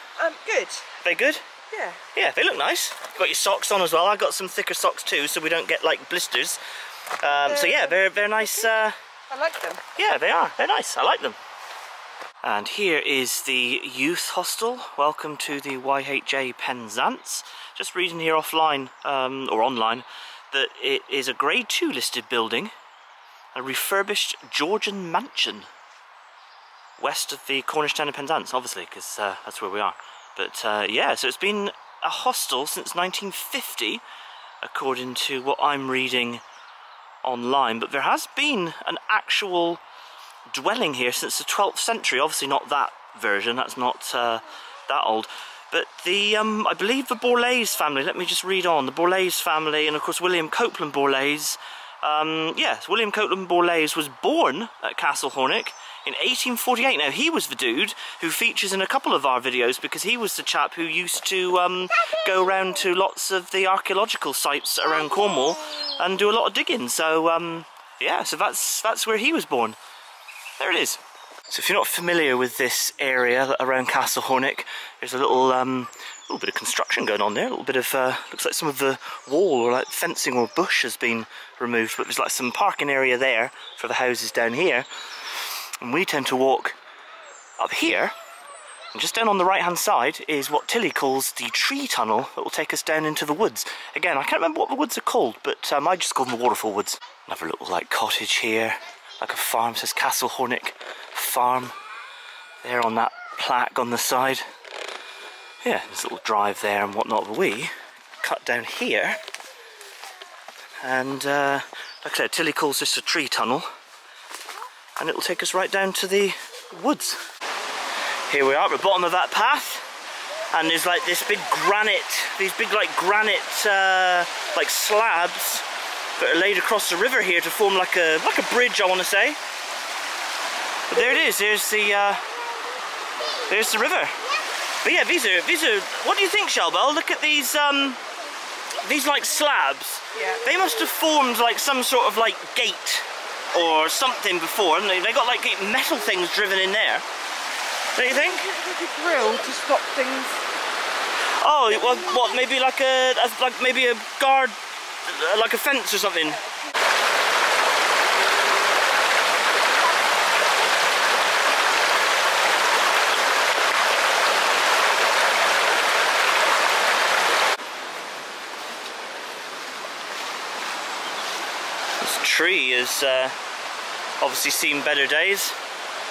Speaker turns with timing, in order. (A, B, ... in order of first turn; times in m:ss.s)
0:00.2-0:00.9 A
0:01.0-0:01.4 B
0:01.7-0:02.0 A
0:02.1-0:06.6 B
0:07.2-0:09.0 B
0:07.3-0:08.7 A
0:09.3-0:09.8 A
0:10.0-0:11.4 B
0:12.4-0:22.7 B
0:23.5-0:25.7 B
0:27.0-0:34.0 B
0:34.6-0:36.4 B
0:37.2-0:39.8 B
0:40.5-1:09.8 B
1:10.6-1:24.9 B
1:25.8-1:26.8 B
1:27.6-1:28.1 B
1:28.9-1:41.7 B
1:42.6-1:44.4 B
1:45.6-1:49.2 B
1:50.8-1:53.7 B
1:55.0-1:57.2 B
1:58.3-1:59.8 B
2:00.5-2:05.6 B
2:06.2-2:09.4 B
2:10.9-2:12.2 B
2:13.5-2:14.2 B
2:14.8-2:18.0 B
2:18.8-2:27.0 B
2:20.1-2:20.4 A
2:27.9-2:28.5 B
2:28.1-2:30.4 A
2:31.4-2:36.4 B
2:52.0-2:53.3 B
2:54.2-2:55.6 B